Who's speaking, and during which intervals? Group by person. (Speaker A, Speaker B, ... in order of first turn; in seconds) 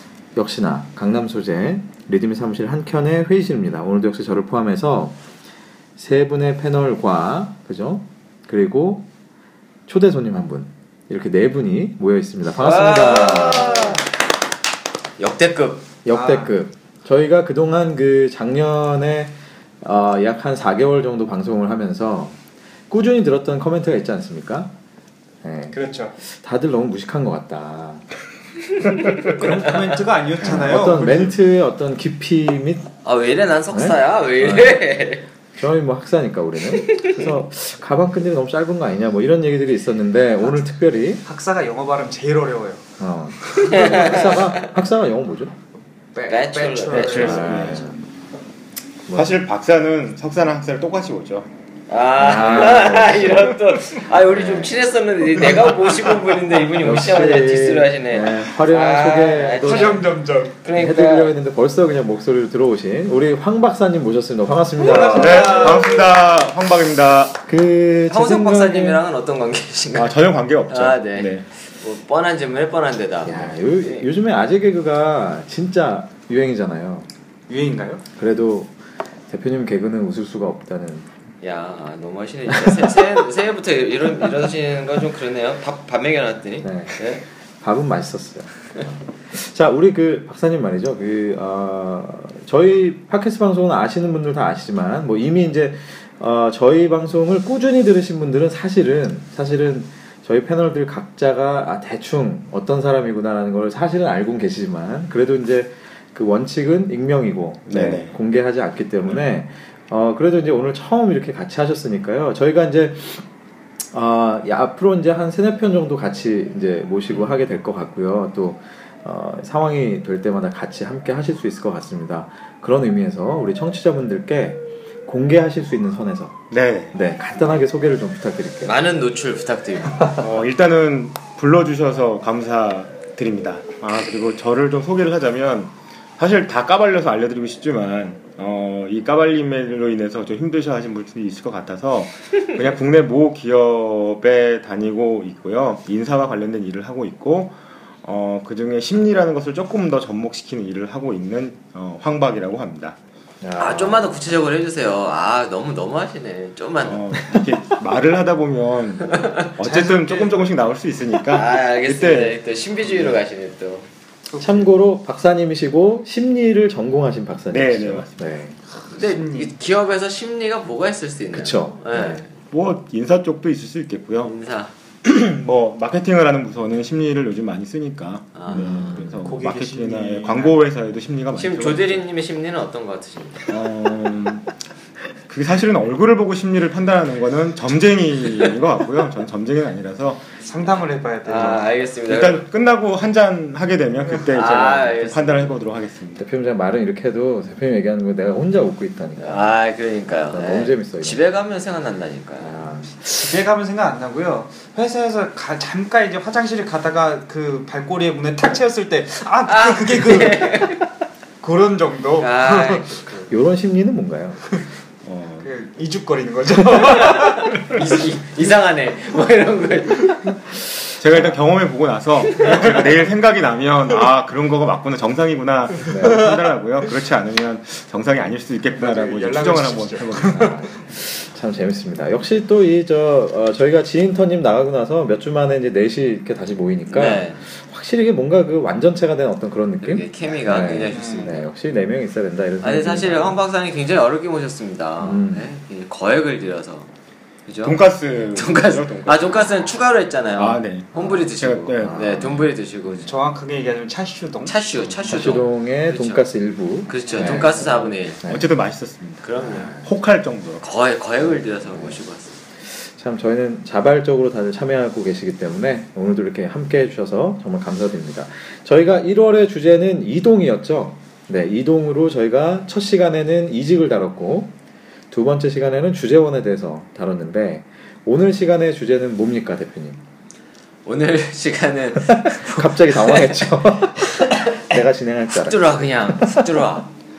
Speaker A: 0.3-5.2, 6.0-9.1, 9.9-14.0, 16.1-22.4, 22.9-24.7, 25.4-25.8, 26.3-28.1, 30.4-32.9, 33.7-34.8, 35.5-41.2, 43.0-45.5, 47.1-48.0, 49.1-49.4, 52.2-53.5, 54.2-54.8, 56.8-60.1, 60.7-65.9, 67.5-69.0, 73.2-77.1, 78.2-78.7, 79.3-81.1, 82.5-82.9, 86.6-87.0, 87.6-88.8, 89.3-113.2, 113.9-126.4, 126.9-128.8, 129.9-130.2, 153.4-154.3, 164.4-168.6, 171.3-172.2, 178.5-179.2, 196.2-199.5, 200.2-201.2, 202.4-202.9, 213.3-214.4, 225.9-226.3, 230.3-243.4, 245.0-245.5, 251.8-253.1, 255.1-258.5, 259.4-259.8, 261.6-262.0, 262.8-274.5, 275.1-280.0, 282.1-286.6
Speaker B: 12.5-14.0, 15.2-15.9, 28.8-29.5, 33.0-35.3, 36.7-37.2, 43.6-44.7, 46.3-47.8, 51.9-60.0, 60.6-61.4, 64.8-65.9, 68.1-74.1, 81.4-87.2, 128.6-130.2, 153.6-157.1, 159.1-159.5, 161.3-163.9, 168.9-172.3, 174.2-174.7, 178.3-179.2, 181.4-183.5, 191.2-192.4, 194.3-195.6, 199.2-202.6, 209.5-210.8, 212.2-212.9, 217.0-220.4, 222.4-222.7, 236.9-237.4, 239.8-241.5, 242.6-246.9, 247.5-247.8, 248.3-253.2, 254.4-256.3, 256.9-258.2, 259.2-259.7, 260.6-262.4, 280.9-283.5, 284.0-284.7, 285.4-286.9
Speaker C: 16.1-16.5, 25.7-26.1, 29.2-31.3, 41.2-42.8, 46.1-47.8, 59.6-60.5, 64.8-66.1, 77.5-78.0, 159.6-160.5, 164.3-164.6, 168.9-169.6, 179.2-180.6, 190.4-191.8, 203.1-210.7, 211.4-213.3, 215.4-217.7, 228.7-230.6, 240.9-241.3, 253.1-255.3, 257.0-257.9
Speaker D: 46.9-47.9, 49.1-51.5, 65.1-67.4, 69.9-71.5, 107.7-108.1, 126.5-127.0, 130.2-153.0, 156.8-162.4, 167.5-168.2, 172.5-174.3, 175.0-182.0, 183.5-184.5, 185.3-190.3, 192.1-196.2, 215.1-215.5, 221.0-230.7, 247.6-249.6, 250.4-252.4, 258.2-260.6